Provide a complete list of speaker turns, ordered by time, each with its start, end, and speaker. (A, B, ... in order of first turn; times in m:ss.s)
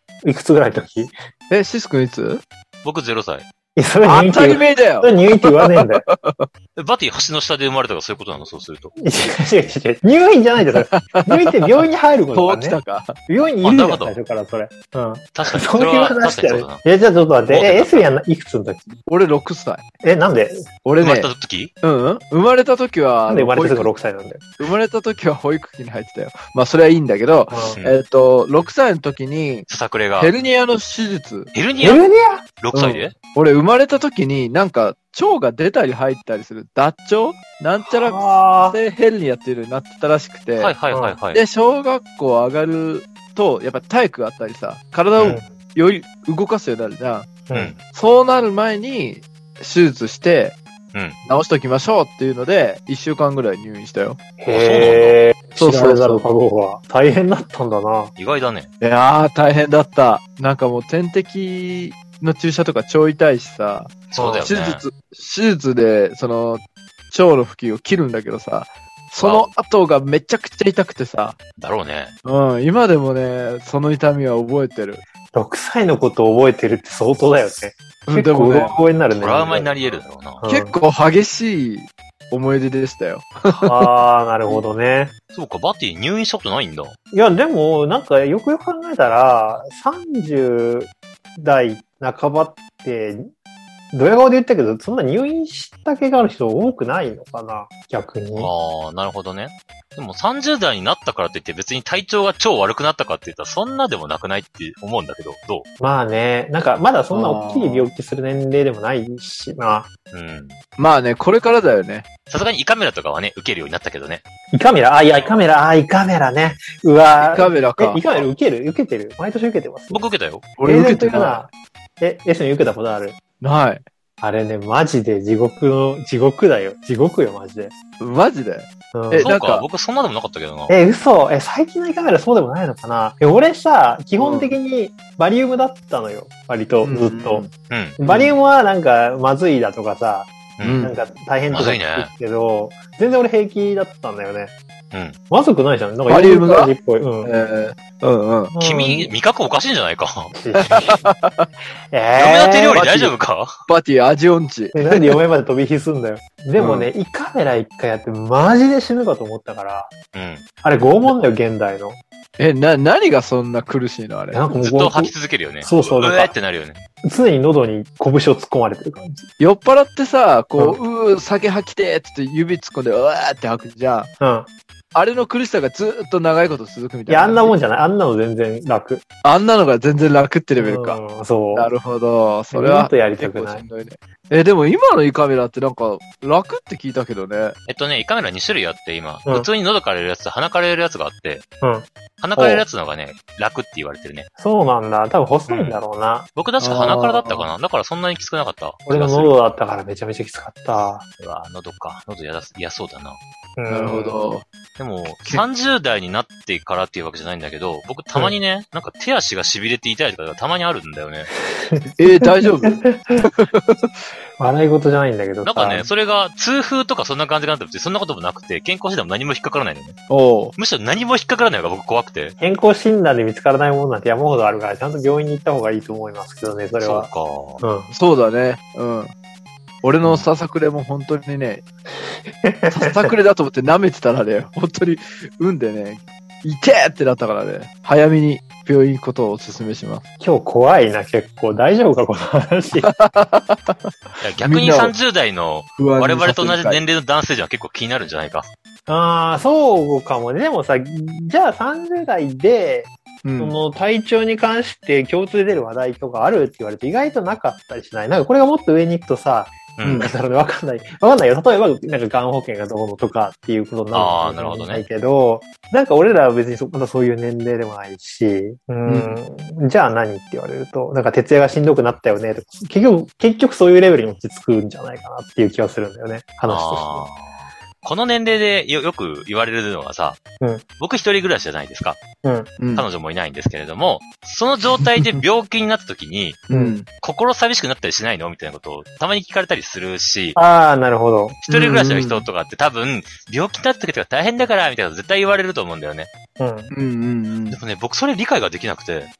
0:00.2-0:01.1 A
0:01.5-0:02.4 B
0:02.8-0:03.5 C
0:03.8-0:06.0 A
0:04.0-0:06.5 B
0:06.8-0:08.9 C
0:09.0-0:19.0 A
0:10.8-0:11.6 B
0:12.3-0:13.2 B
0:13.6-0:14.2 C
0:15.4-0:16.8 C
0:17.5-0:18.1 C
0:19.1-0:19.8 B
0:20.0-0:20.7 A
0:20.8-0:21.3 B
0:21.0-0:21.7 C
0:21.8-0:23.9 B
0:23.3-0:24.4 A
0:24.6-0:29.7 B
0:27.5-0:27.8 A
0:29.7-0:30.3 C
0:30.2-0:31.5 B
0:31.5-0:32.0 C
0:31.8-0:32.4 A
0:32.6-0:33.1 C
0:32.7-0:40.7 B
0:37.8-0:38.8 A
0:40.6-0:41.4 C
0:40.9-0:41.2 A
0:41.3-0:50.6 B
0:47.5-0:47.7 A
0:51.3-0:54.2 B
0:54.4-0:58.1 A
0:54.5-0:55.2 C
0:55.6-0:56.3 B
0:58.2-0:58.7 C
0:58.8-1:11.4 B
1:04.1-1:04.8 C
1:04.2-1:04.4 A
1:09.2-1:09.5 C
1:11.6-1:12.1 C
1:12.2-1:15.0 B
1:15.3-1:20.8 A
1:18.1-1:18.8 B
1:19.1-1:20.4 C
1:20.5-1:23.9 B
1:23.6-1:25.1 A
1:25.3-1:27.0 C
1:27.1-1:33.3 A
1:33.9-1:38.5 A
1:38.4-1:45.7 C
1:45.8-1:49.9 A
1:47.1-1:47.9 B
1:50.1-1:50.6 C
1:50.8-1:52.1 B
1:52.3-1:54.2 C
1:54.5-2:00.0 A
1:57.2-1:58.2 B
1:59.9-2:00.5 C
2:00.6-2:01.5 B
2:00.6-2:03.2 A
2:03.4-2:03.8 B
2:04.2-2:07.7 A
2:08.0-2:09.7 B
2:08.9-2:09.3 A
2:09.2-2:10.8 C
2:10.7-2:24.6 A
2:14.2-2:14.6 B
2:16.8-2:17.5 B
2:17.7-2:18.0 C
2:18.0-2:18.4 B
2:20.6-2:20.8 C
2:20.6-2:20.9 B
2:21.5-2:22.1 C
2:24.9-2:25.2 C
2:25.3-2:27.3 A
2:26.1-2:28.5 B
2:28.5-2:29.1 A
2:28.6-2:30.3 C
2:30.3-2:31.1 A
2:30.5-2:31.5 B
2:31.9-2:32.9 A
2:32.2-2:33.6 C
2:32.8-2:33.1 B
2:33.7-2:35.2 B
2:34.7-2:39.9 A
2:36.6-2:36.9 B
2:40.1-2:40.4 C
2:40.6-2:42.0 A
2:42.4-2:44.4 B
2:44.3-2:46.4 A
2:44.6-2:46.8 C
2:47.0-2:49.3 A
2:49.4-2:54.1 B
2:54.2-2:54.5 A
2:55.0-2:57.6 B
2:57.1-2:59.0 A
2:59.2-3:01.0 B
3:00.6-3:01.7 A
3:01.5-3:07.6 B
3:02.5-3:03.7 A
3:07.7-3:11.4 C
3:11.6-3:12.6 A
3:12.2-3:14.3 C
3:14.4-3:16.3 A
3:15.5-3:15.8 C
3:16.4-3:19.4 C
3:16.6-3:17.5 B
3:18.9-3:21.0 A
3:21.2-3:23.2 C
3:23.6-3:24.2 A
3:23.7-3:24.5 B
3:24.8-3:31.3 C
3:31.5-3:33.3 A
3:32.0-3:34.0 B
3:34.4-3:35.9 A
3:35.4-3:40.0 C
3:40.1-3:40.5 B
3:40.6-3:42.4 C
3:42.4-3:47.1 A
3:46.8-3:47.6 C
3:47.6-3:47.9 A
3:47.9-3:49.1 B
3:49.8-3:51.6 B
3:52.4-3:53.1 A
3:52.7-4:00.0 B
4:00.2-4:02.9 A
4:02.8-4:04.9 B
4:04.2-4:08.5 C
4:05.8-4:06.8 B
4:08.9-4:37.1 A
4:13.2-4:13.6 B
4:19.8-4:20.1 C
4:23.9-4:24.8 C
4:28.9-4:29.2 B
4:36.5-4:40.2 C
4:40.8-4:42.0 C
4:42.2-4:42.5 A
4:42.6-4:42.9 B
4:42.7-4:46.4 C
4:44.7-4:45.2 B
4:46.5-4:46.9 B
4:46.5-4:46.8 A
4:46.9-4:50.4 C
4:50.4-4:51.4 A
4:51.5-4:56.1 C
4:51.5-4:52.3 B
4:56.4-4:56.7 A
4:56.7-4:57.6 B
4:57.5-4:59.1 C